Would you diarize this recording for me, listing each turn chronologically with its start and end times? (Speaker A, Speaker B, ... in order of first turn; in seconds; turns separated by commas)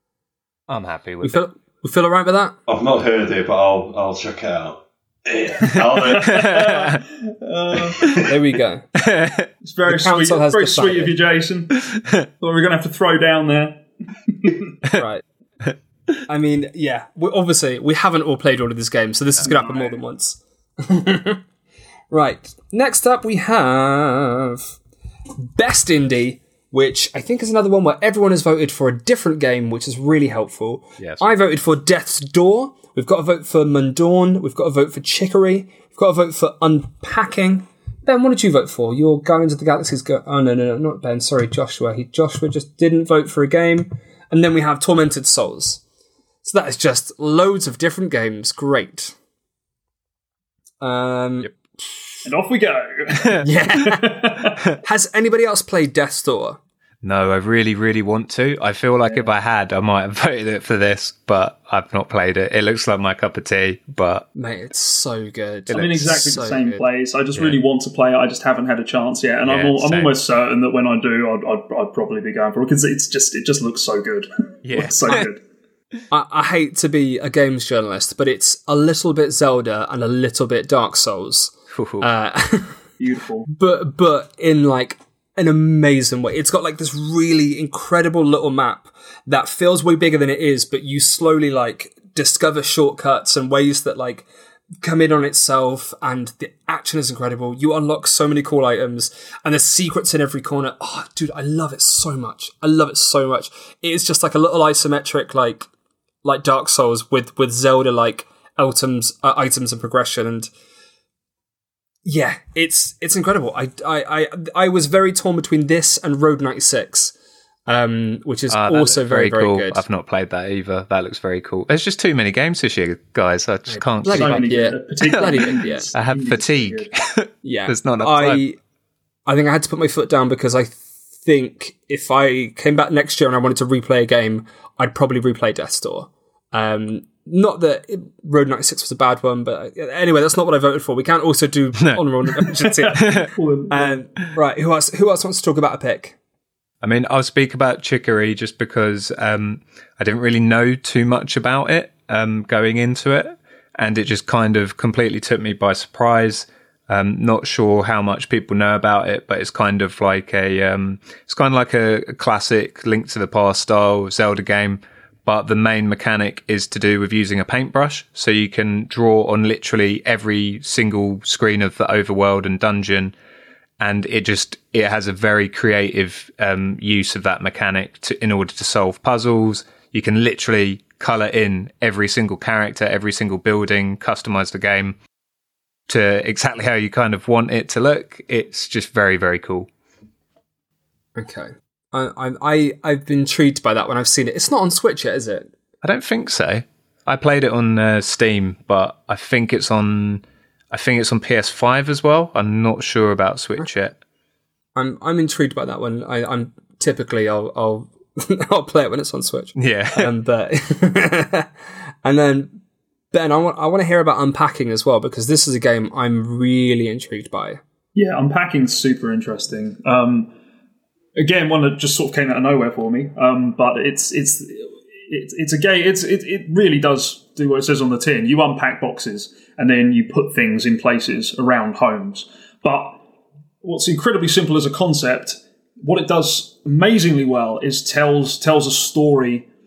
Speaker A: 0.7-1.4, Speaker B: 1.2-2.5, Speaker C: 2.7-6.5, Speaker A: 5.7-7.0, Speaker D: 5.8-8.2, Speaker C: 7.7-8.3, Speaker B: 8.2-8.8, Speaker A: 9.0-9.5, Speaker D: 9.6-11.8, Speaker B: 9.9-11.1, Speaker A: 11.9-12.2, Speaker D: 12.4-14.7, Speaker B: 14.9-15.2, Speaker B: 16.3-21.4, Speaker D: 19.4-20.0, Speaker B: 22.1-24.8, Speaker B: 25.4-45.8, Speaker A: 31.0-31.2, Speaker B: 46.4-49.1, Speaker B: 50.8-51.5, Speaker D: 52.2-54.6, Speaker B: 53.4-56.6, Speaker A: 57.0-64.2, Speaker B: 64.3-66.8, Speaker A: 65.7-66.3, Speaker D: 65.7-75.4, Speaker A: 69.4-70.1, Speaker A: 74.6-75.3, Speaker B: 76.1-82.8, Speaker A: 81.7-82.1, Speaker D: 83.0-83.5, Speaker B: 83.5-94.2, Speaker B: 94.8-105.7, Speaker B: 106.2-110.5, Speaker B: 112.0-117.1, Speaker B: 117.7-119.8, Speaker A: 118.5-128.4, Speaker B: 123.7-125.9, Speaker D: 124.1-126.9, Speaker B: 127.4-128.6, Speaker B: 129.3-143.1, Speaker A: 141.8-142.0, Speaker D: 142.6-144.0, Speaker A: 142.9-143.3, Speaker B: 143.7-146.2, Speaker A: 146.8-173.1, Speaker A: 173.8-185.0, Speaker A: 185.9-189.7, Speaker B: 191.2-195.5, Speaker A: 195.8-204.0, Speaker B: 204.7-211.5, Speaker A: 209.6-210.1, Speaker B: 212.0-212.6, Speaker B: 213.1-217.6, Speaker D: 217.9-220.3, Speaker D: 221.2-233.0, Speaker D: 233.6-239.5